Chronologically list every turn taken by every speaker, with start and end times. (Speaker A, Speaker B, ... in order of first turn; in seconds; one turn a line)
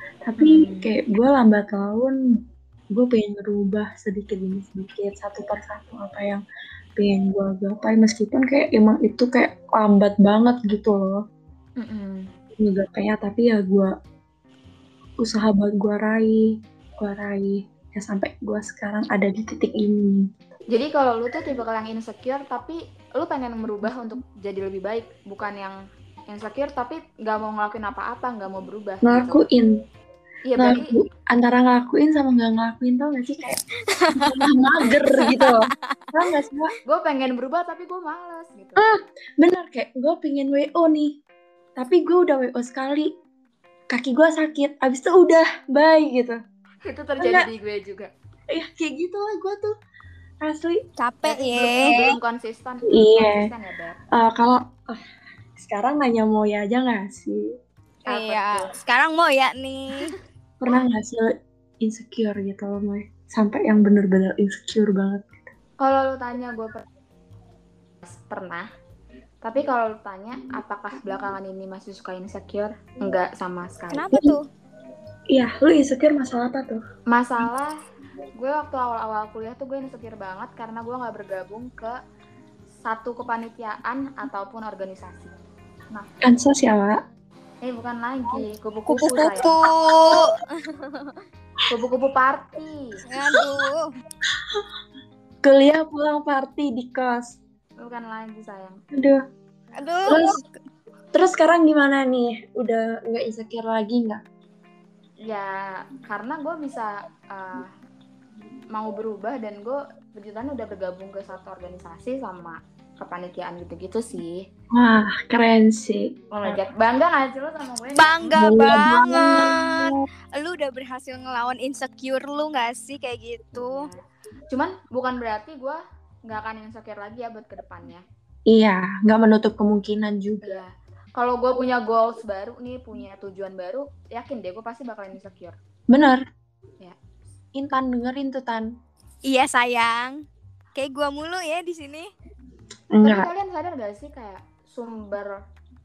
Speaker A: 0.2-2.2
Speaker B: 0.4-0.9
Speaker A: 2.9-6.4
Speaker A: 7.0-11.2
Speaker B: 11.8-12.2
Speaker A: 12.6-13.9
Speaker A: 15.2-16.4
Speaker A: 17.0-20.2
Speaker B: 20.7-25.8
Speaker B: 26.3-29.4
Speaker A: 29.0-29.7
Speaker B: 30.4-30.9
Speaker A: 30.6-33.6
Speaker C: 33.9-36.0
Speaker A: 34.1-36.7
Speaker B: 36.9-38.8
Speaker A: 38.8-41.1
Speaker A: 41.8-43.1
Speaker A: 43.9-46.4
Speaker B: 46.8-48.1
Speaker A: 47.2-47.5
Speaker A: 48.5-49.7
Speaker A: 50.4-50.8
Speaker C: 51.0-52.0
Speaker B: 51.2-54.0
Speaker A: 52.9-53.5
Speaker A: 54.1-55.0
Speaker A: 55.6-57.4
Speaker B: 58.0-58.7
Speaker C: 58.0-60.1
Speaker A: 60.6-61.3
Speaker A: 61.8-65.5
Speaker B: 65.8-66.8
Speaker B: 68.0-68.7
Speaker B: 69.4-74.1
Speaker C: 73.9-74.4
Speaker A: 75.3-76.8
Speaker B: 77.1-77.7
Speaker B: 78.4-81.9
Speaker B: 82.8-85.3
Speaker A: 86.2-87.0
Speaker B: 87.6-89.5
Speaker A: 88.3-89.5
Speaker C: 89.4-91.2
Speaker B: 91.7-92.8
Speaker C: 93.1-93.9
Speaker A: 95.4-97.3
Speaker B: 97.8-98.8
Speaker A: 98.9-99.2
Speaker C: 99.8-100.4
Speaker A: 100.0-100.3
Speaker A: 101.1-104.2
Speaker B: 105.2-107.7
Speaker B: 108.7-114.4
Speaker A: 114.7-116.6
Speaker B: 116.3-118.2
Speaker C: 117.9-123.8
Speaker A: 118.2-120.0
Speaker B: 123.5-128.0
Speaker A: 128.5-130.6
Speaker B: 130.4-135.6
Speaker A: 135.9-136.2
Speaker A: 137.6-138.7
Speaker C: 139.3-140.2
Speaker C: 140.8-142.1
Speaker A: 142.9-143.3
Speaker B: 143.0-145.3